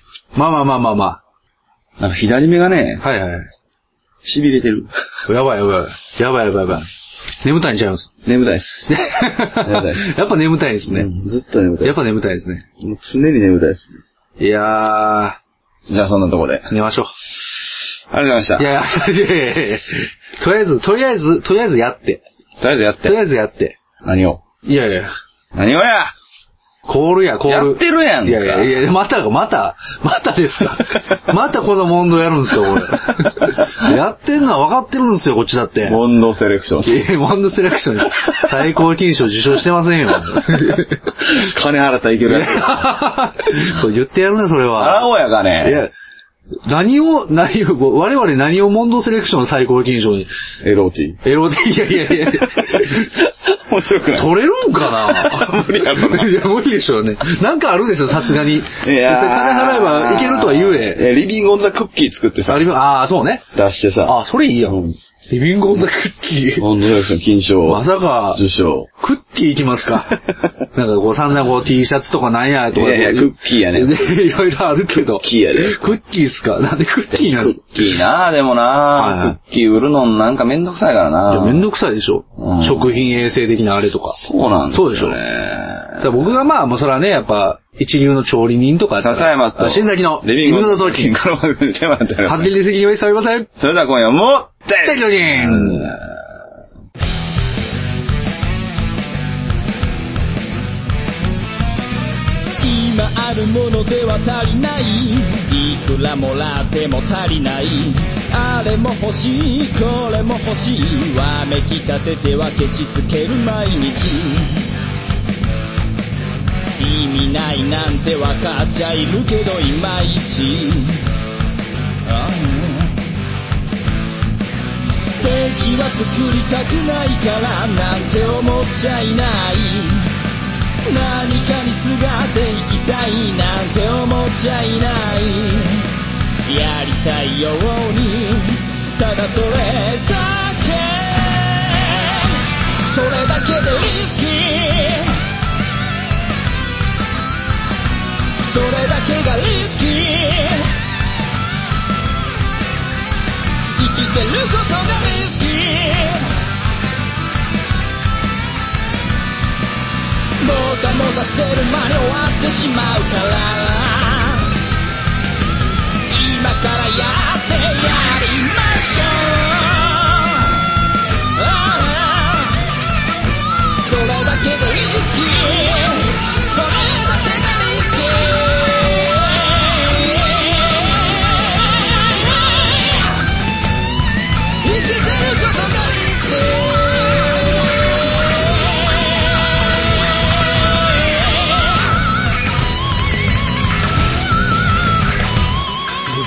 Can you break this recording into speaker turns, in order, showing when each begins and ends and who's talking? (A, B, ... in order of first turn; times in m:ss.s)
0:00.4-0:01.2 A
0:02.0-0:03.0 B
0:03.0-0:03.5 A
0:04.2-0:04.9 B
0:05.3-0:06.9 A
0:07.4-0:08.1 A
0:08.2-0:08.9 B
0:08.9-0:11.1 A
0:09.6-0:10.1 B
0:10.9-0:12.0 B
0:11.8-0:12.6 A
0:12.8-0:13.9 B
0:14.4-0:15.4 A
0:15.9-0:16.7 B
0:16.7-0:17.1 A
0:18.1-0:18.7 B
0:18.6-0:22.2 A
0:22.6-0:23.2 B
0:23.0-0:23.8 A
0:24.0-0:24.4 B
0:24.6-0:25.1 A
0:25.5-0:26.1 B
0:26.8-0:36.0 A
0:27.4-0:28.8 B
0:35.8-0:37.0 B
0:36.8-0:41.0 A
0:41.2-0:42.9 B
0:42.2-0:45.1 A
0:44.8-0:45.8 B
0:45.6-0:45.9 A
0:46.7-0:50.3 A
0:50.6-0:51.2 B
0:51.2-0:53.1 A
0:52.1-0:56.4 B
0:54.1-1:01.0 A
0:58.4-1:02.7 B
1:02.5-1:03.5 A
1:03.5-1:04.9 B
1:04.0-1:06.7 A
1:06.6-1:08.9 B
1:07.7-1:08.4 A
1:09.0-1:10.2 A
1:10.7-1:17.6 A
1:12.7-1:14.1 B
1:14.9-1:15.8 B
1:17.1-1:21.6 B
1:19.0-1:19.4 A
1:21.3-1:25.2 A
1:22.4-1:23.1 B
1:24.1-1:26.2 B
1:26.0-1:31.1 A
1:29.0-1:32.5 B
1:32.3-1:33.5 A
1:33.6-1:36.2 B
1:34.8-1:36.0 A
1:42.6-1:54.7 C
1:56.8-2:01.0 C
2:02.0-2:03.0 C
2:05.2-2:10.1 C
2:10.9-2:15.9 C
2:16.4-2:25.2 C
2:28.5-2:30.7 C
2:33.8-2:36.3 C
2:40.4-2:44.5 C
2:46.1-2:50.6 C
2:51.4-2:52.6 C
2:53.9-3:03.1 C
3:04.6-3:07.6 C
3:08.5-3:09.2 C